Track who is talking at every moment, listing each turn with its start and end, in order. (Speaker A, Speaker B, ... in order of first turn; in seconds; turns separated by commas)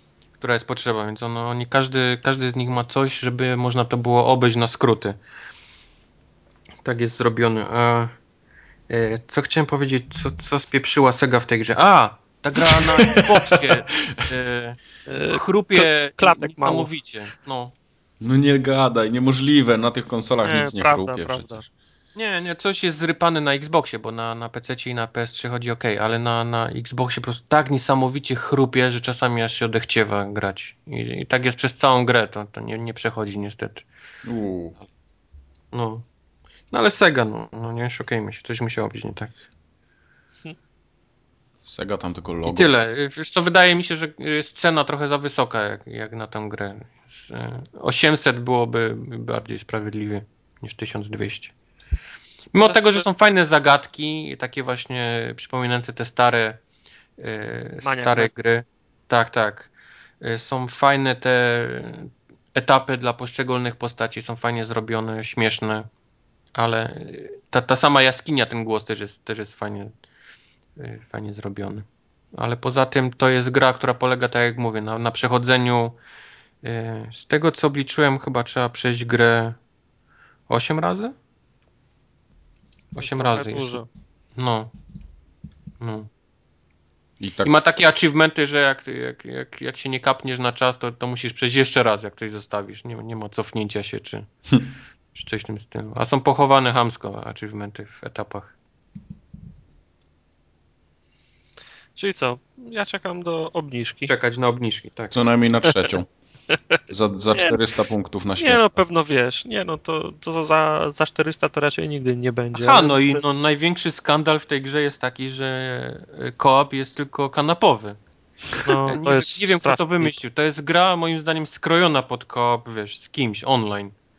Speaker A: 0.4-5.2, Speaker A: 6.8-8.2, Speaker A: 8.9-14.8, Speaker B: 12.6-14.2, Speaker C: 15.1-16.9, Speaker A: 15.3-17.7, Speaker B: 18.2-21.6, Speaker C: 20.4-21.6, Speaker A: 22.1-33.9, Speaker B: 34.2-34.8, Speaker A: 35.7-36.0, Speaker A: 36.7-39.4, Speaker B: 41.6-42.7, Speaker A: 42.5-51.5, Speaker A: 52.5-56.6, Speaker C: 52.7-53.0, Speaker A: 57.2-65.9, Speaker C: 57.8-58.3, Speaker A: 66.5-69.9, Speaker A: 70.8-76.0, Speaker A: 76.6-79.6, Speaker A: 80.5-81.1, Speaker C: 82.9-83.9, Speaker A: 83.0-83.8, Speaker A: 84.4-84.7, Speaker A: 85.8-86.1, Speaker B: 87.2-87.5, Speaker A: 87.4-94.3, Speaker A: 95.2-98.5, Speaker C: 102.0-104.1, Speaker A: 104.1-105.2, Speaker B: 105.1-106.1, Speaker B: 106.9-108.7, Speaker C: 108.4-113.2, Speaker A: 112.5-118.0, Speaker C: 118.6-120.2, Speaker A: 118.7-123.9